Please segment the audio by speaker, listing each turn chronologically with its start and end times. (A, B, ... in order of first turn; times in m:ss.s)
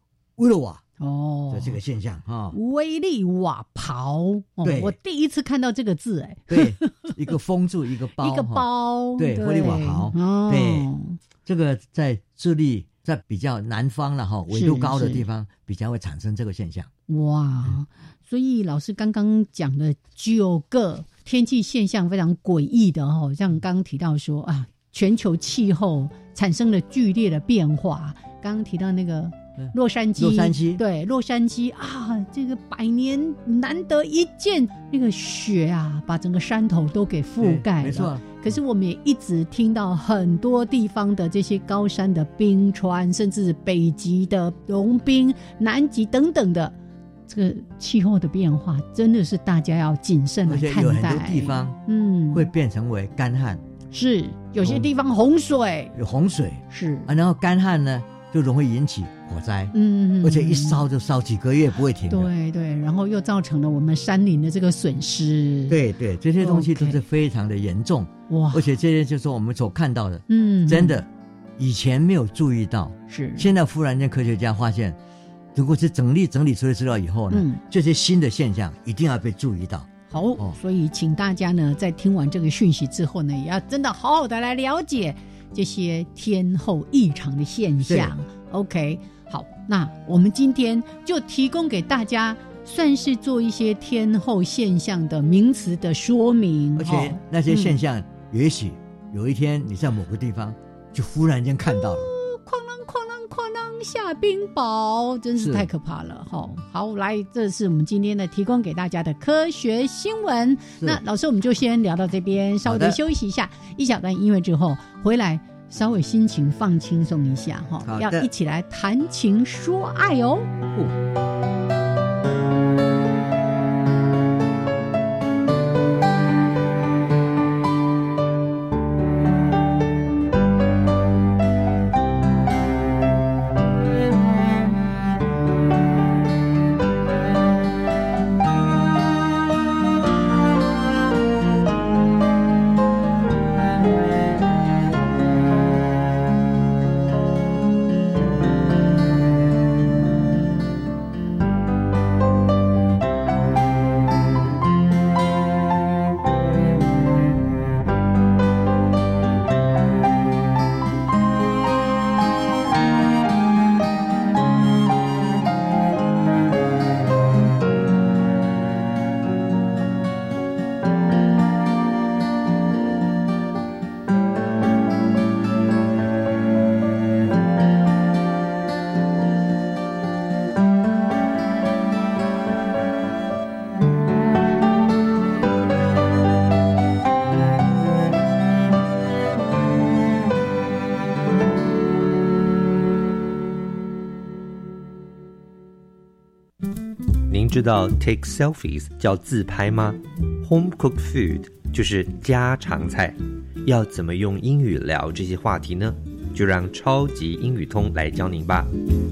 0:00.4-0:00.8 A
0:01.0-0:01.8 B
0:01.5-0:02.6 A
0:02.5-0:07.1 B
0:04.6-0:05.0 A
0:06.5-0:10.9 A
0:08.2-0:11.2 B
0:11.5-0:16.9 A
0:14.5-0:15.2 B
0:17.1-0:46.8 B
0:29.6-0:30.8 A
0:37.4-0:38.4 A
0:47.3-0:52.5 B
0:50.5-0:51.8 A
0:52.3-0:53.6 A
0:53.9-0:55.9 B
0:54.6-0:54.9 A
0:56.0-1:02.3 A
0:56.7-0:57.1 B
0:59.7-1:00.8 B
1:02.1-1:05.8 B
1:05.7-1:11.1 A
1:06.4-1:07.0 B
1:08.3-1:08.8 B
1:10.3-1:11.0 B
1:11.6-1:15.0 A
1:13.1-1:13.5 B
1:15.6-1:20.6 A
1:17.3-1:17.6 B
1:20.1-1:37.8 B
1:27.8-1:28.2 A
1:36.8-1:42.1 A
1:41.7-2:00.5 B
1:45.4-1:45.7 A
1:52.6-1:53.0 A
1:57.8-1:58.3 A
3:17.3-3:28.7 C